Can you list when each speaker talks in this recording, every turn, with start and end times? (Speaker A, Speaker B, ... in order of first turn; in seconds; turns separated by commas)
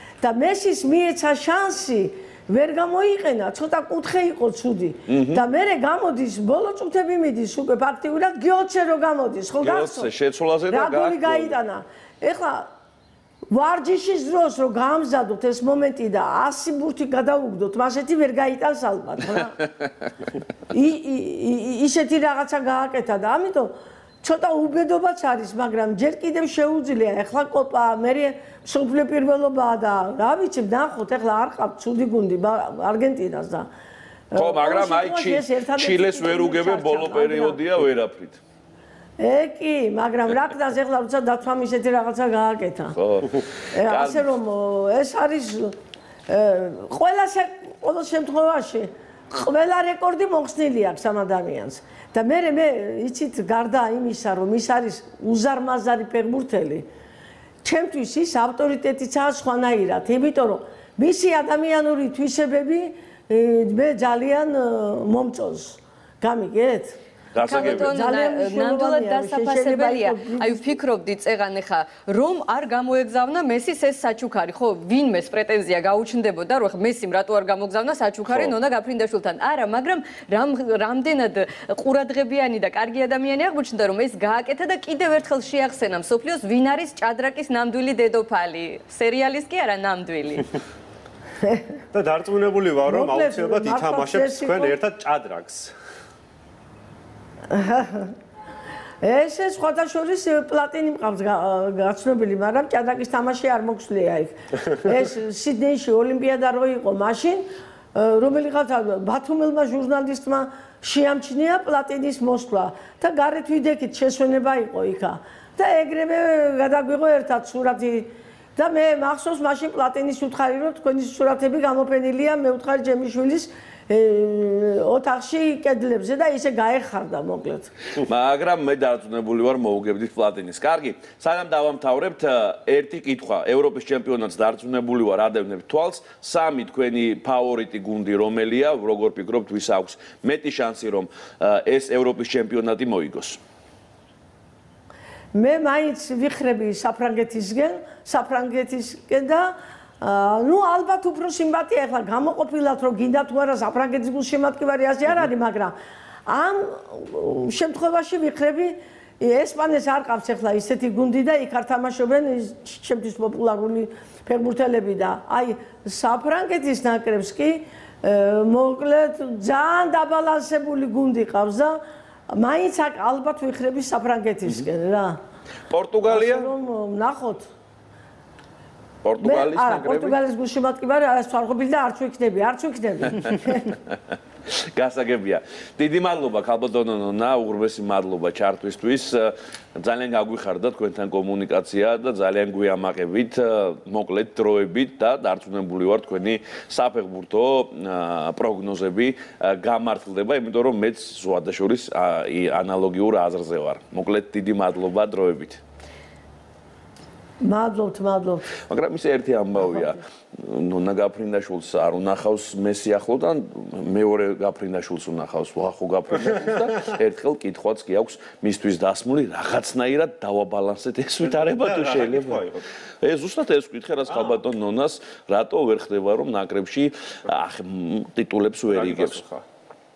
Speaker A: 0.2-10.1, Speaker B: 5.1-5.4, Speaker B: 9.6-11.6, Speaker A: 10.7-12.7, Speaker A: 13.5-19.6, Speaker A: 20.7-33.7, Speaker A: 34.3-37.6, Speaker B: 34.3-38.4, Speaker A: 39.2-43.0, Speaker B: 43.0-44.3, Speaker A: 43.7-45.8, Speaker A: 46.3-56.9, Speaker A: 57.6-70.8, Speaker B: 67.3-67.9, Speaker C: 67.4-90.5, Speaker B: 78.3-78.5, Speaker A: 91.4-91.7, Speaker D: 91.9-95.7, Speaker A: 92.8-94.8, Speaker A: 97.5-98.1, Speaker A: 99.0-127.7, Speaker B: 128.0-143.4, Speaker A: 145.3-155.8, Speaker A: 156.3-171.8, Speaker A: 172.3-175.2, Speaker B: 175.7-176.5, Speaker A: 176.1-177.5, Speaker B: 179.0-180.2, Speaker A: 179.2-183.7, Speaker B: 184.5-205.6, Speaker A: 207.4-208.5, Speaker B: 208.7-222.5, Speaker D: 221.2-222.6, Speaker B: 223.0-229.2, Speaker D: 228.7-229.4